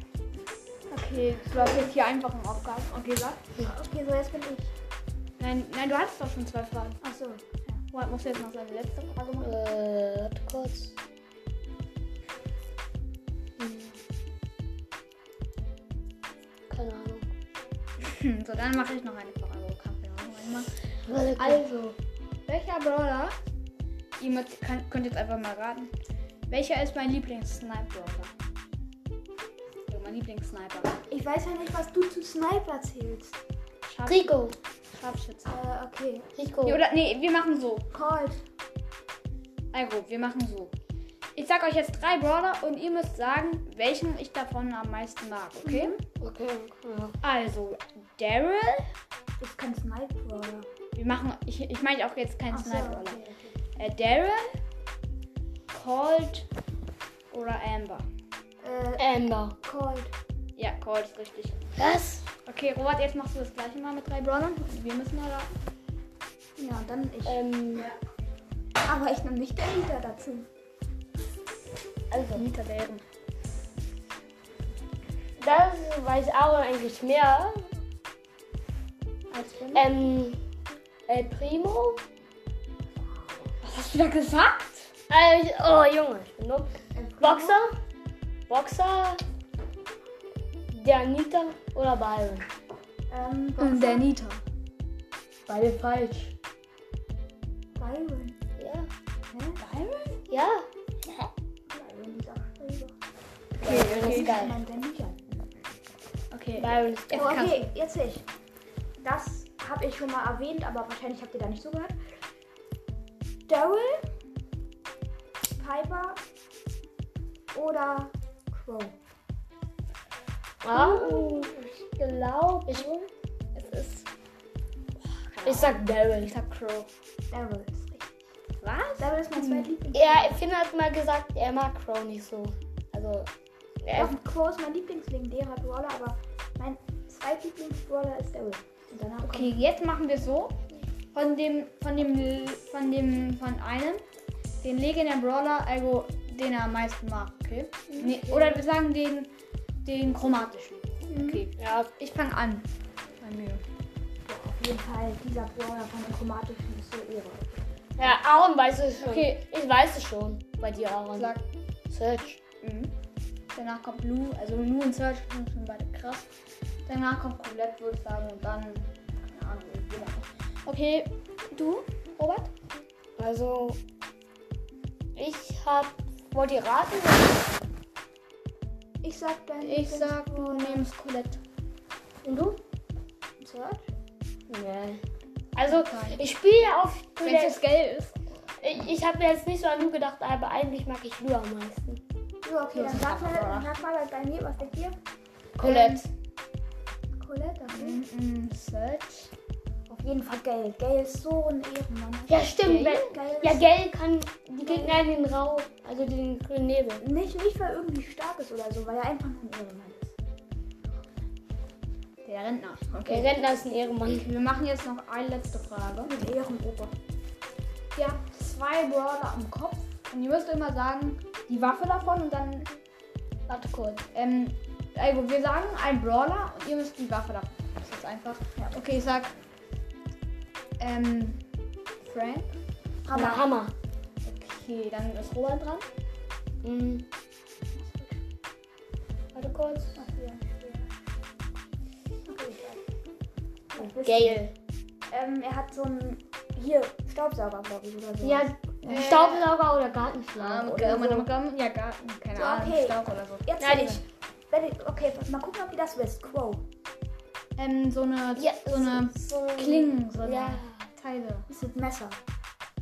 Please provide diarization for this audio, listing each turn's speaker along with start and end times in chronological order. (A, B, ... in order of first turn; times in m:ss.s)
0:00.9-0:03.4 A
0:01.5-0:01.9 B
0:03.6-0:04.7 B
0:05.4-0:07.0 A
0:07.0-0:07.8 B
0:07.9-0:09.6 A
0:09.4-0:10.9 C
0:13.6-0:14.0 C
0:16.7-0:17.3 C
0:18.0-0:20.7 A
0:21.1-0:22.0 C
0:21.4-0:21.7 A
0:22.4-0:23.3 A
0:24.2-0:25.9 A
0:26.5-0:28.3 A
0:29.9-0:31.0 A
0:31.1-0:33.4 B
0:33.8-0:34.3 A
0:34.0-0:34.6 C
0:34.9-0:35.5 A
0:35.4-0:36.3 B
0:36.3-0:36.8 C
0:36.6-0:37.8 A
0:37.9-0:38.4 B
0:39.7-0:40.7 A
0:41.4-0:45.9 A
0:45.6-0:46.0 B
0:46.2-0:47.2 C
0:47.2-0:48.9 A
0:49.4-0:50.7 B
0:51.0-0:53.2 A
0:52.5-0:53.2 B
0:53.8-0:54.6 A
0:55.7-0:56.5 A
0:57.3-0:58.0 A
0:58.6-0:59.1 B
0:59.0-0:59.6 C
0:59.6-1:00.1 B
1:00.6-1:01.6 A
1:01.8-1:02.3 C
1:02.4-1:05.5 A
1:06.6-1:07.4 B
1:07.2-1:07.9 C
1:08.8-1:10.5 B
1:12.1-1:12.4 C
1:12.3-1:13.0 A
1:15.4-1:17.7 C
1:19.3-1:19.8 A
1:19.7-1:20.4 C
1:21.1-1:22.0 C
1:23.6-1:24.9 A
1:25.1-1:27.8 C
1:26.9-1:27.6 B
1:28.5-1:29.2 C
1:30.7-1:32.5 C
1:33.1-1:34.1 B
1:33.6-1:34.4 A
1:35.5-1:36.3 C
1:37.8-1:38.4 B
1:38.6-1:38.9 C
1:39.3-1:39.6 B
1:39.6-1:40.2 A
1:40.3-1:40.7 C
1:41.7-1:42.9 B
1:43.6-1:44.6 C
1:43.6-1:44.5 A
1:43.6-1:45.3 B
1:46.3-1:47.7 A
1:46.6-1:47.4 C
1:47.1-1:48.2 B
1:49.0-1:52.0 B
1:53.5-1:54.0 B
1:55.6-1:56.2 B
1:57.5-1:59.0 B
2:00.6-2:01.5 C
2:00.7-2:01.7 A
2:02.0-2:03.1 B
2:02.2-2:02.9 A
2:03.5-2:04.1 A
2:05.0-2:06.9 A
2:05.4-2:06.3 C
2:07.3-2:08.1 B
2:08.6-2:09.7 A
2:09.0-2:10.4 B
2:09.9-2:13.3 C
2:13.8-2:14.1 C
2:13.9-2:19.6 B
2:19.2-2:20.5 A
2:21.1-2:24.0 A
2:24.6-2:29.3 A
2:27.9-2:28.6 B
2:29.8-2:32.7 A
2:31.1-2:31.4 B
2:31.6-2:31.9 C
2:33.2-2:33.6 A
2:34.2-2:37.6 B
2:38.0-2:41.3 C
2:39.0-2:39.4 A
2:41.1-2:41.4 A
2:41.9-2:42.4 C
2:42.6-2:42.9 A
2:43.5-2:46.3 A
2:46.9-2:52.5 A
2:53.2-2:53.8 C
2:55.1-2:57.7 C
2:59.0-3:00.9 B
2:59.6-3:01.4 A
3:02.2-3:02.6 C
3:03.4-3:03.9 B
3:04.5-3:05.0 C
3:05.5-3:07.6 C
3:05.6-3:06.2 A
3:07.2-3:08.2 A
3:08.6-3:12.0 C
3:12.4-3:15.0 B
3:12.7-3:13.7 A
3:15.6-3:16.1 C
3:15.6-3:16.0 A
3:17.2-3:18.0 B
3:17.7-3:19.3 A
3:19.9-3:22.5 B
3:22.3-3:27.0 C
3:22.6-3:23.1 A
3:23.1-3:23.7 B
3:24.6-3:25.0 B
3:27.0-3:30.1 B
3:32.2-3:33.3 A
3:33.0-3:34.3 C
3:34.1-3:36.1 A
3:36.0-3:36.9 B
3:37.9-3:42.7 A
3:43.5-3:44.0 C
3:44.1-3:49.3 A
3:50.8-3:51.4 A
3:52.0-3:52.5 A
3:53.0-3:53.5 B
3:53.1-3:53.7 C
3:54.2-3:55.8 A
3:56.6-3:57.1 C
3:57.7-3:58.2 B
3:59.3-4:00.0 C
3:59.9-4:00.9 B
4:02.3-4:02.8 B
4:03.7-4:04.4 B
4:03.8-4:04.5 C
4:05.1-4:09.1 B
4:08.2-4:11.0 C
4:08.8-4:09.5 A
4:10.4-4:13.9 A
4:10.8-4:11.3 B
4:12.3-4:16.6 B
4:13.6-4:14.0 C
4:17.6-4:21.4 A
4:18.4-4:20.9 C
4:21.5-4:22.2 B